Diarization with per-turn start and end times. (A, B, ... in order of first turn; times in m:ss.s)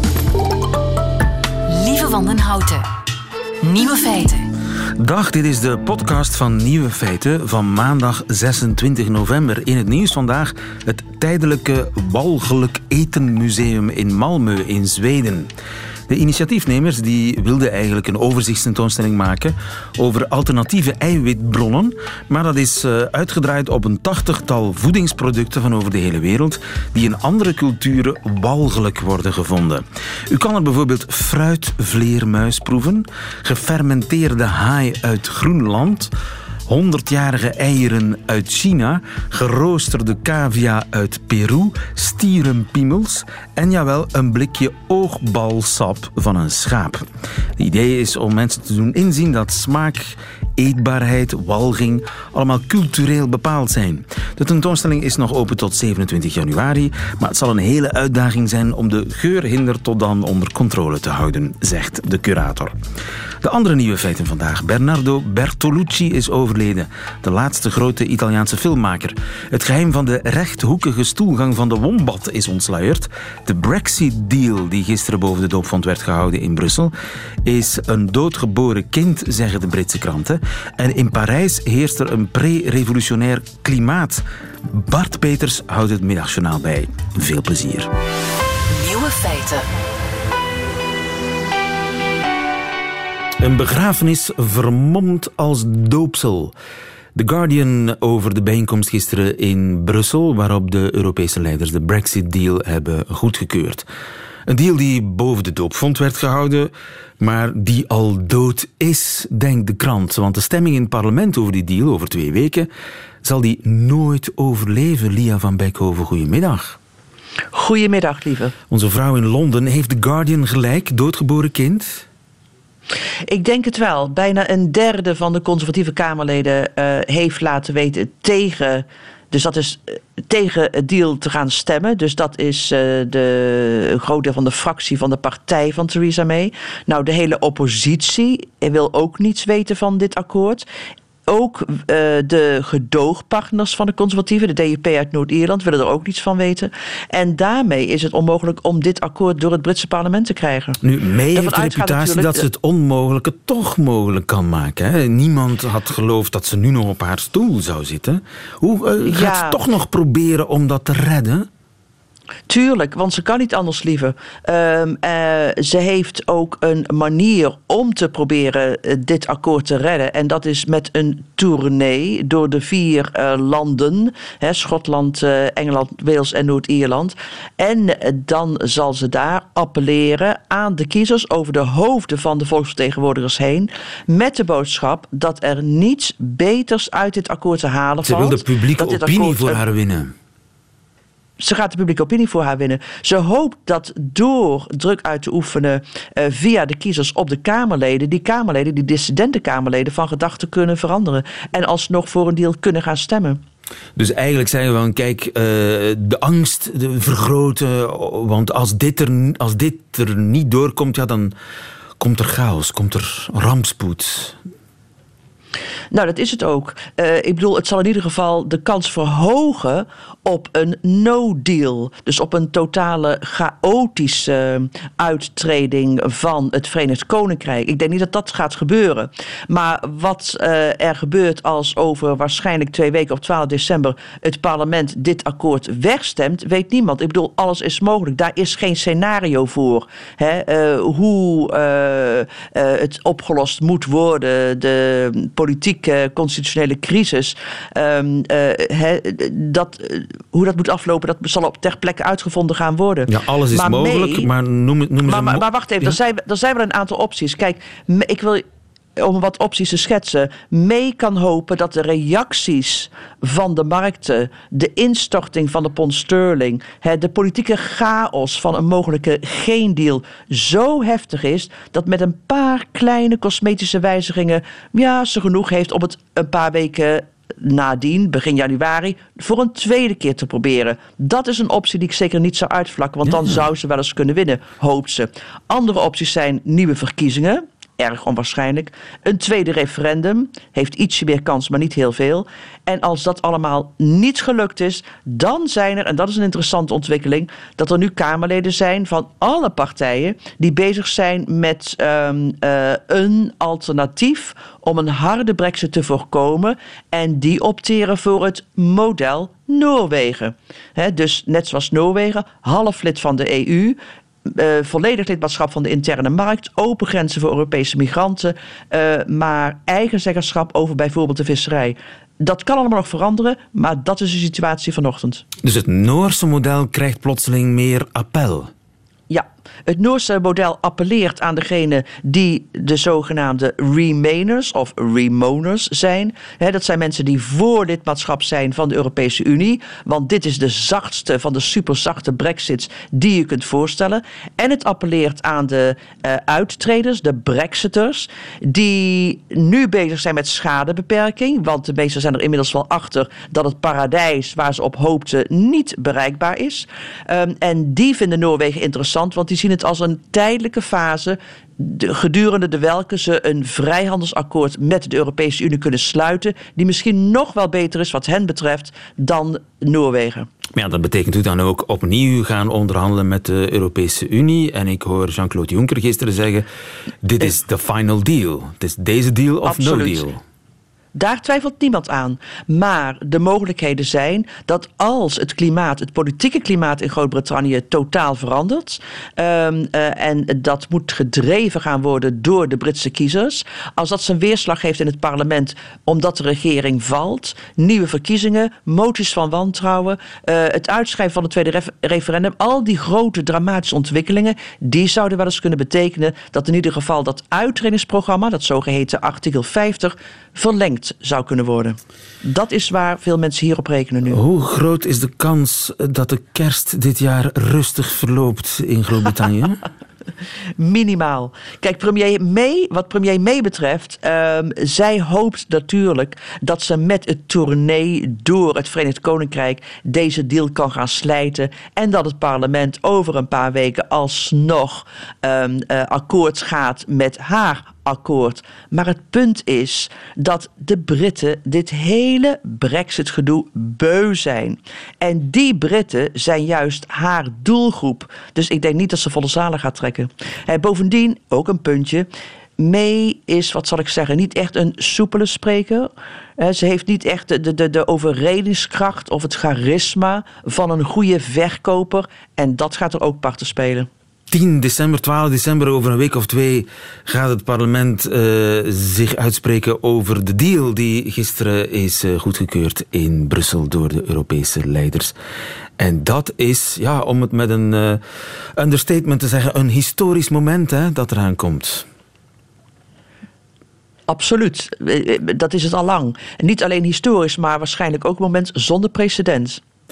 0:01.7-0:02.9 A
0:03.6-0:04.5 A
0:05.0-0:15.5 B
0:16.1-0:36.1 B
0:36.7-0:47.0 B
0:47.6-1:02.8 B
1:03.4-1:16.9 B
1:17.4-1:27.9 B
1:28.7-1:29.7 A
1:33.4-1:36.5 B
1:37.2-1:43.8 B
1:44.5-1:52.7 B
1:53.2-1:56.8 B
1:57.5-1:58.5 C
1:58.7-2:02.0 B
2:03.3-2:20.7 C
2:21.3-2:30.8 C
2:30.8-2:41.5 B
2:31.3-2:32.4 C
2:39.0-2:39.6 C
2:42.5-3:09.6 C
3:08.0-3:10.1 B
3:11.4-3:23.4 C
3:24.0-3:31.3 B
3:32.0-3:34.4 B
3:35.9-4:14.3 C
4:13.1-4:16.0 B
4:15.1-4:18.4 C
4:19.0-5:25.2 C
5:25.4-5:28.5 B
5:29.1-6:10.3 C
6:10.5-6:16.5 B
6:17.0-6:20.2 B
6:19.4-6:20.0 C
6:21.0-6:54.2 C
6:54.1-6:59.6 B
7:00.6-7:32.1 C
7:32.6-7:43.9 C
7:44.3-7:55.2 B
7:55.8-7:58.0 B
7:58.6-8:01.9 B
8:04.1-8:09.6 C